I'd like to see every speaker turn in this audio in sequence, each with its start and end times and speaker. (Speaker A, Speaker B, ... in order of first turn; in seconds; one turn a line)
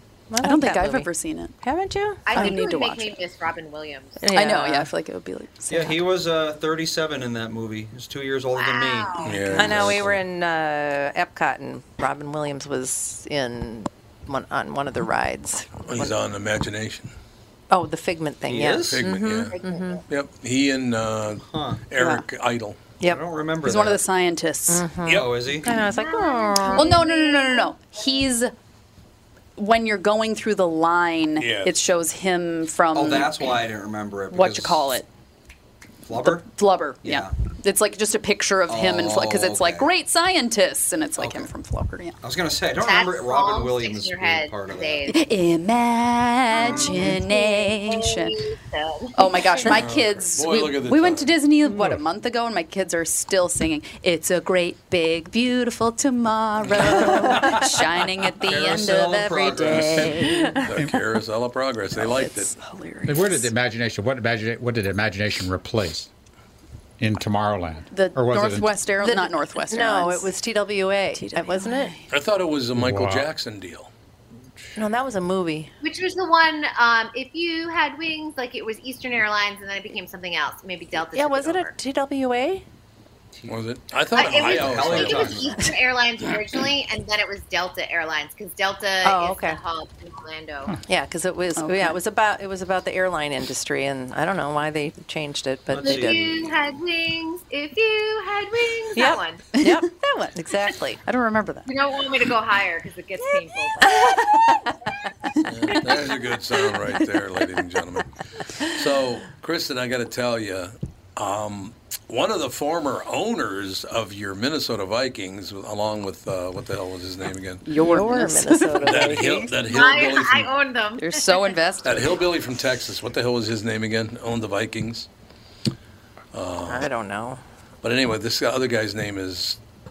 Speaker A: 0.3-1.1
Speaker B: 0.4-1.5
Speaker A: 1.6-2.6
Speaker C: 2.3-4.2
Speaker B: 2.3-3.2
Speaker A: 4.2-4.9
Speaker B: 4.3-6.0
Speaker D: 5.7-10.1
Speaker C: 8.6-9.4
Speaker E: 9.2-10.2
Speaker A: 9.6-16.2
Speaker E: 15.9-17.1
Speaker A: 17.7-20.0
Speaker D: 18.4-19.0
Speaker E: 18.9-19.6
Speaker C: 19.3-20.0
Speaker E: 20.1-22.8
Speaker D: 21.4-21.8
Speaker D: 23.0-24.0
Speaker B: 23.6-24.9
Speaker A: 24.7-27.0
Speaker E: 25.1-25.3
Speaker D: 25.1-25.7
Speaker C: 25.9-27.8
Speaker B: 26.8-28.5
Speaker B: 29.6-33.6
Speaker E: 31.4-31.8
Speaker D: 32.9-35.0
Speaker B: 34.3-35.1
Speaker D: 36.0-36.5
Speaker B: 36.2-42.2
Speaker D: 37.0-37.3
Speaker D: 38.7-39.9
Speaker D: 41.2-41.5
Speaker D: 42.2-45.0
Speaker C: 42.8-45.2
Speaker B: 45.1-48.4
Speaker C: 46.5-49.8
Speaker D: 46.6-47.1
Speaker B: 49.1-60.7
Speaker E: 49.7-51.4
Speaker F: 51.7-52.0
Speaker D: 56.7-57.1
Speaker D: 58.4-60.2
Speaker A: 60.2-60.6
Speaker E: 60.6-62.5
Speaker F: 60.7-61.0
Speaker B: 61.9-63.5
Speaker F: 63.0-66.1
Speaker F: 67.0-68.8
Speaker B: 67.9-70.3
Speaker A: 69.0-71.9
Speaker B: 71.2-72.1
Speaker E: 72.1-73.9
Speaker F: 72.8-73.3
Speaker A: 74.8-75.7
Speaker C: 75.8-81.7
Speaker A: 81.1-82.7
Speaker E: 83.5-85.6
Speaker D: 84.1-85.6
Speaker C: 84.2-90.7
Speaker A: 89.0-89.6
Speaker A: 90.9-96.3
Speaker B: 91.6-92.0
Speaker D: 95.8-96.0
Speaker C: 95.8-99.5
Speaker A: 99.0-101.0
Speaker B: 99.6-99.9
Speaker B: 101.0-101.7
Speaker C: 101.7-104.1
Speaker B: 104.0-104.7
Speaker E: 105.5-108.1
Speaker E: 108.6-117.6
Speaker B: 117.7-119.4
Speaker A: 117.7-119.5
Speaker E: 118.8-120.5
Speaker C: 119.7-121.6
Speaker B: 121.0-122.2
Speaker E: 121.8-125.1
Speaker E: 126.3-126.9
Speaker A: 126.7-127.4
Speaker E: 127.8-129.6